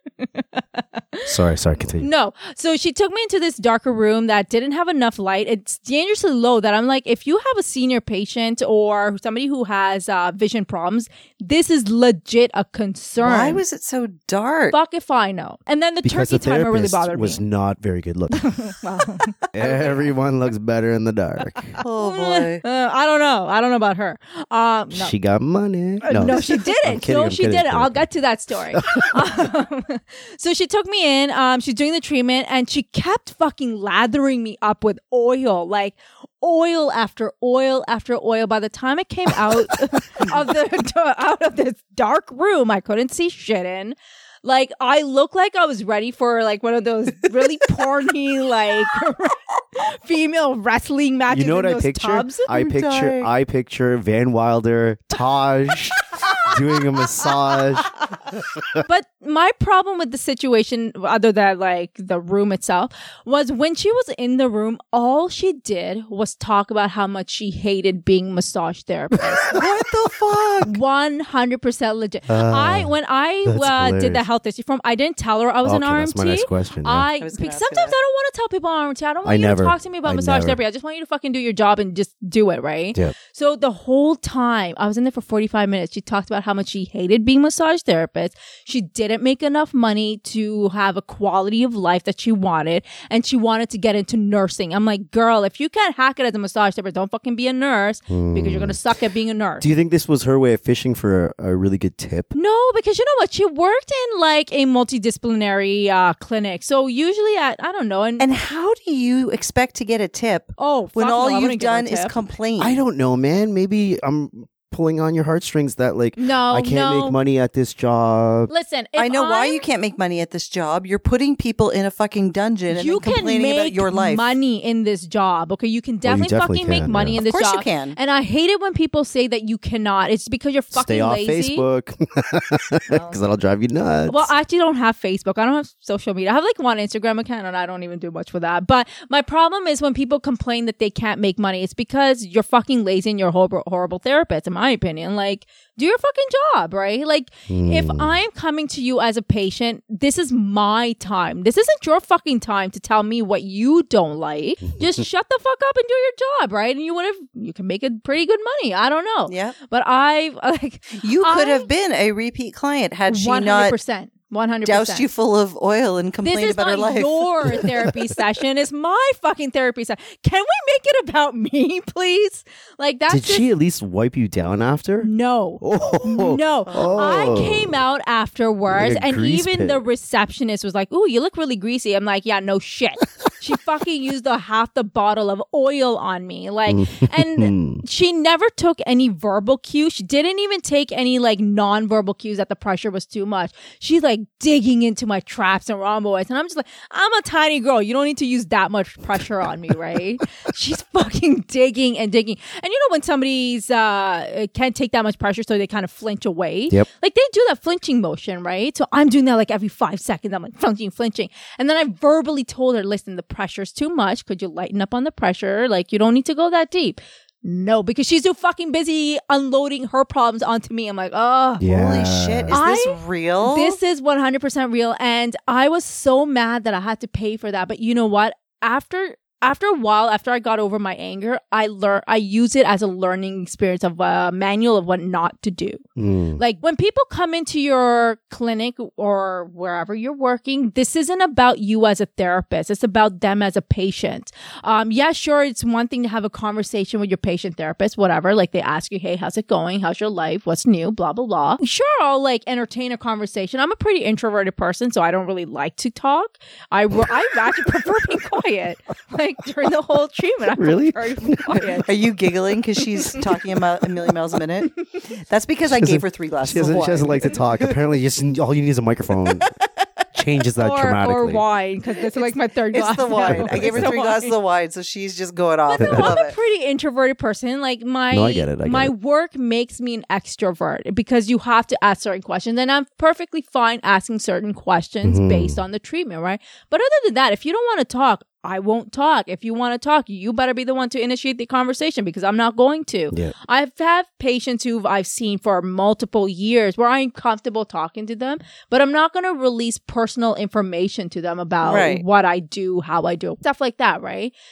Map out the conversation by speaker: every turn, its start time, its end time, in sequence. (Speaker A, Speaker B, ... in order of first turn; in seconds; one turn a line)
Speaker A: 0.2-1.3
Speaker B: 1.3-2.1
Speaker A: 2.0-13.6
Speaker C: 13.2-14.8
Speaker A: 14.7-17.4
Speaker B: 16.0-18.6
Speaker A: 18.3-20.0
Speaker B: 19.5-21.8
Speaker C: 21.8-22.6
Speaker A: 22.0-25.1
Speaker B: 24.9-28.1
Speaker A: 26.0-52.6
Speaker B: 28.7-29.2
Speaker B: 51.3-58.8
Speaker C: 52.6-53.3
Speaker A: 58.8-69.6
Speaker C: 69.5-70.8
Speaker A: 70.7-99.7
Speaker B: 72.3-72.9
Speaker B: 73.5-74.2
Speaker B: 75.6-77.1
Speaker C: 77.2-78.0
Speaker B: 79.2-80.6
Speaker B: 98.1-98.8
Speaker B: 99.6-102.3
Speaker A: 102.3-108.3
Speaker C: 108.2-112.8
Speaker A: 110.6-112.2
Speaker B: 112.6-118.5
Speaker A: 116.2-117.2
Speaker A: 118.5-119.6
Speaker C: 119.0-124.4
Speaker A: 122.7-131.6
Speaker B: 126.0-127.2
Speaker C: 127.2-128.0
Speaker B: 130.7-134.3
Speaker C: 132.9-133.2
Speaker A: 134.1-161.7
Speaker B: 147.5-148.2
Speaker C: 159.3-159.6
Speaker C: 161.0-163.8
Speaker A: 163.1-165.1
Speaker C: 164.7-167.1
Speaker A: 166.2-173.4
Speaker B: 173.1-175.1
Speaker A: 175.0-221.7
Speaker B: 175.6-177.8
Speaker B: 178.7-179.8
Speaker B: 186.7-187.8
Speaker B: 221.6-222.6
Speaker C: 221.7-223.8
Speaker A: 222.5-235.8
Speaker B: 236.0-236.4
Speaker A: 236.4-262.0
Speaker B: 260.6-261.7
Speaker C: 261.8-267.8
Speaker A: 262.8-263.3
Speaker B: 265.7-269.5
Speaker C: 269.3-269.9
Speaker B: 270.1-271.4
Speaker A: 270.6-274.4
Speaker C: 272.0-276.4
Speaker B: 273.2-273.9
Speaker A: 275.7-304.3
Speaker B: 275.8-276.2
Speaker B: 278.1-278.9
Speaker B: 285.0-285.6
Speaker C: 301.6-302.0